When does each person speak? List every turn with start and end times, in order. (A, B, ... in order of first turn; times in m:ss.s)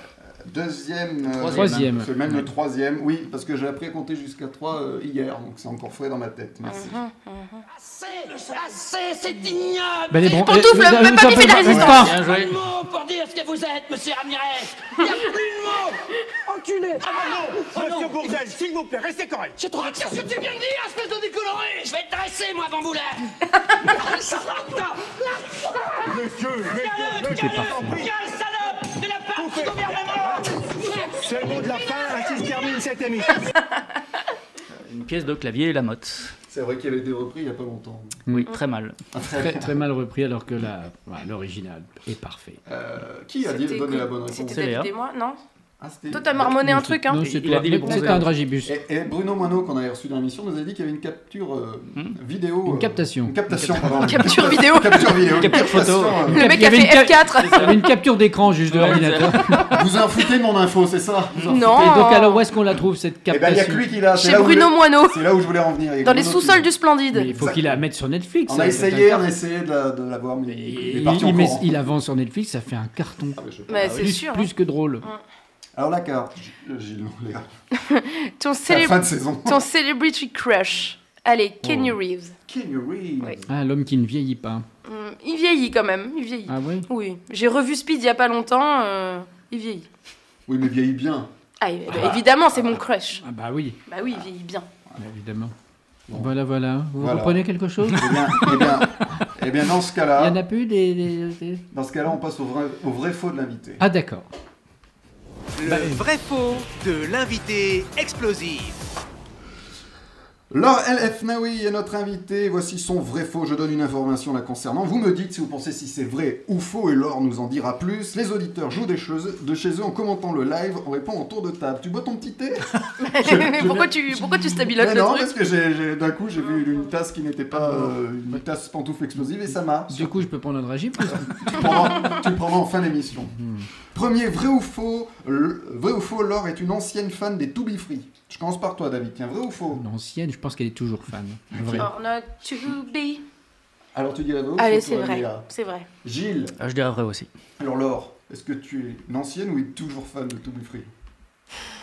0:00.4-0:07.0 A
0:01.3-0:01.9 B
0:01.5-0:02.5 C
0:06.7-0:07.6 D
0:07.7-0:18.4 E
0:10.1-0:12.2 C
0:10.4-0:12.0 D
0:11.6-0:12.0 A
0:11.9-0:12.6 B
0:17.2-0:19.6 F
0:19.6-0:23.3 E
0:23.8-0:32.3 E
0:26.1-0:28.1 F
0:27.2-0:28.0 C
0:29.3-0:33.4 F
0:34.8-0:36.3 B
0:36.5-0:38.2 A
0:38.3-0:39.0 B
0:39.1-0:39.8 A
0:39.3-0:42.6 C
0:42.6-0:44.7 A
0:43.4-0:45.4 D
0:44.5-0:44.9 B
0:45.8-0:46.6 A
0:46.1-0:47.3 D
0:46.6-0:48.7 C
0:47.2-0:48.3 B
0:48.6-0:56.5 A
0:52.7-0:53.4 C
0:53.7-0:54.2 B
0:54.0-0:55.2 D
0:55.3-0:56.2 B
0:56.3-0:59.7 C
0:56.3-0:57.8 D
0:58.7-0:59.6 B
0:59.7-1:01.7 A
1:01.5-1:02.4 D
1:01.6-1:03.9 C
1:03.3-1:06.7 A
1:04.1-1:05.2 D
1:06.0-1:07.3 D
1:07.1-1:09.3 C
1:07.3-1:07.8 A
1:08.4-1:11.8 A
1:10.6-1:13.4 C
1:13.4-1:13.9 A
1:13.7-1:14.5 D
1:13.9-1:15.1 C
1:15.8-1:17.5 A
1:17.8-1:22.3 D
1:18.6-1:19.6 A
1:22.5-1:23.4 A
1:23.5-1:24.6 C
1:24.8-1:29.9 D
1:26.5-1:26.9 C
1:30.5-1:31.3 A
1:31.6-1:33.2 D
1:33.2-1:33.8 C
1:33.9-1:34.6 D
1:35.0-1:35.5 C
1:36.1-1:38.6 C
1:37.0-1:40.4 A
1:40.2-1:41.6 C
1:41.7-1:43.8 A
1:43.8-1:44.3 C
1:45.6-1:48.8 G
1:45.6-1:46.0 C
1:50.5-2:10.3 A
2:03.0-2:05.3 D
2:07.6-2:07.9 C
2:09.9-2:11.7 C
2:11.1-2:13.3 A
2:13.4-2:13.7 C
2:13.9-2:19.8 A
2:19.8-2:21.9 C
2:21.5-2:21.9 A
2:21.8-2:23.2 D
2:23.9-2:25.5 A
2:24.6-2:25.9 D
2:26.0-2:26.5 A
2:26.6-2:27.3 B
2:27.6-2:30.9 A